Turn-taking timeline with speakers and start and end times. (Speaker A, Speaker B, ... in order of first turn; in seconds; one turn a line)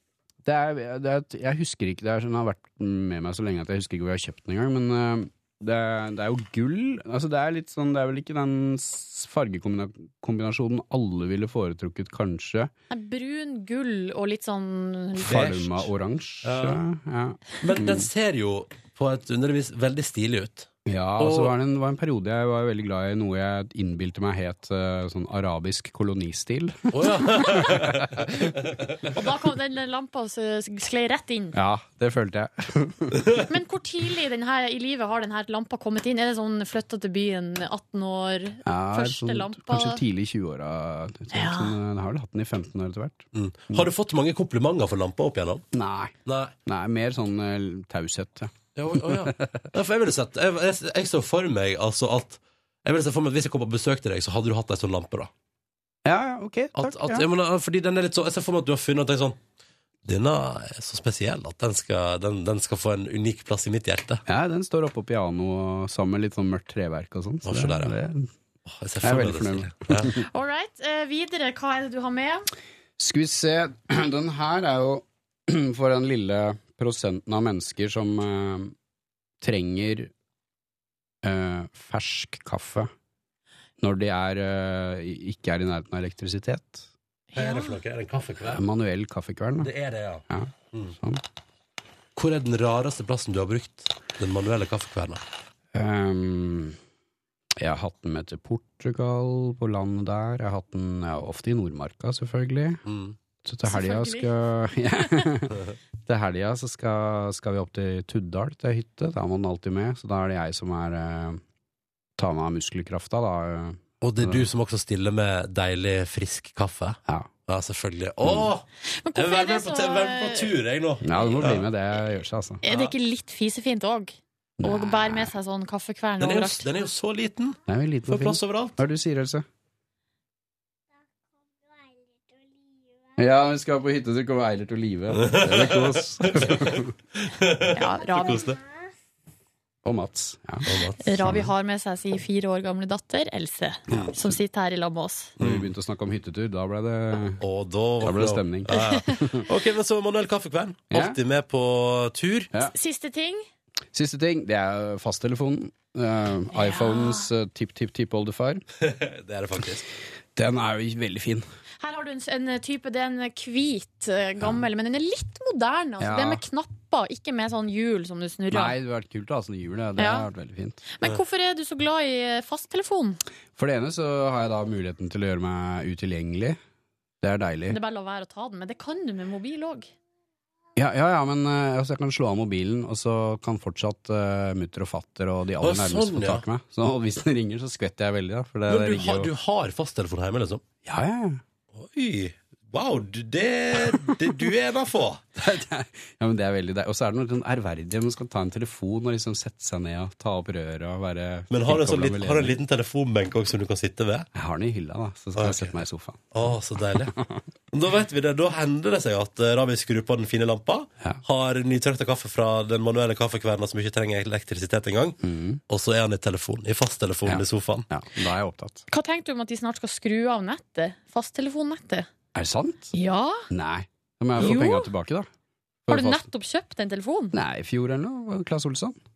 Speaker A: 0.5-12.7
Speaker B: 12.9-15.4
Speaker A: 15.2-18.1
Speaker C: 15.3-15.9
Speaker C: 16.4-16.8
Speaker C: 17.6-21.6
Speaker A: 20.9-28.4
Speaker C: 26.9-28.9
Speaker B: 27.4-27.7
Speaker B: 29.1-31.6
Speaker A: 31.5-33.5
Speaker B: 33.5-40.0
Speaker A: 38.7-43.9
Speaker B: 41.3-41.8
Speaker C: 43.3-45.7
Speaker A: 45.7-46.1
Speaker C: 46.2-46.5
Speaker A: 46.7-49.7
Speaker C: 48.8-55.3
Speaker A: 56.0-57.3
Speaker C: 56.8-59.4
Speaker C: 60.0-64.2
Speaker A: 64.3-68.3
Speaker C: 67.4-67.9
Speaker C: 68.7-70.1
Speaker A: 69.0-70.2
Speaker B: 70.2-72.5
Speaker A: 73.0-78.7
Speaker A: 79.4-80.1
Speaker A: 81.2-82.9
Speaker A: 83.8-86.9
Speaker B: 87.3-87.8
Speaker C: 87.3-88.6
Speaker A: 88.4-89.7
Speaker C: 89.6-90.9
Speaker A: 90.3-91.2
Speaker C: 92.2-95.2
Speaker A: 95.7-96.8
Speaker A: 97.6-102.8
Speaker C: 102.9-103.2
Speaker A: 103.4-111.4
Speaker B: 103.7-104.3
Speaker B: 104.9-105.2
Speaker A: 112.2-114.5
Speaker C: 114.0-121.7
Speaker A: 118.2-118.5
Speaker B: 118.9-120.5
Speaker A: 121.0-122.6
Speaker B: 122.6-126.7
Speaker C: 122.7-122.9
Speaker A: 124.6-125.3
Speaker C: 126.2-128.8
Speaker A: 127.7-129.4
Speaker A: 133.2-136.9
Speaker C: 135.2-138.6
Speaker B: 137.7-138.5
Speaker A: 139.8-140.7
Speaker C: 140.7-141.0
Speaker B: 141.0-145.3
Speaker A: 145.4-147.4
Speaker C: 145.4-145.7
Speaker C: 147.4-152.5
Speaker A: 148.0-149.4
Speaker A: 150.9-151.2
Speaker B: 152.7-153.4
Speaker A: 153.9-158.6
Speaker B: 156.5-157.3
Speaker C: 158.8-159.8
Speaker A: 160.4-161.4
Speaker B: 161.8-168.8
Speaker A: 166.0-166.4
Speaker A: 168.5-170.8
Speaker B: 170.0-170.3
Speaker B: 170.9-173.2
Speaker A: 173.6-176.6
Speaker A: 177.2-177.8
Speaker B: 177.7-179.9
Speaker A: 180.8-189.3
Speaker C: 185.6-186.4
Speaker C: 188.7-190.6
Speaker A: 190.8-191.4
Speaker C: 191.7-195.3
Speaker A: 195.4-202.6
Speaker C: 201.5-204.3
Speaker A: 204.3-207.4
Speaker C: 205.4-205.8
Speaker C: 206.3-207.1
Speaker C: 207.7-217.9
Speaker A: 215.2-215.6
Speaker A: 217.2-218.8
Speaker B: 218.9-222.1
Speaker A: 222.3-222.9
Speaker B: 222.9-223.5
Speaker A: 223.5-225.3
Speaker B: 224.4-224.9
Speaker A: 225.9-226.2
Speaker B: 225.9-227.3
Speaker A: 227.3-229.0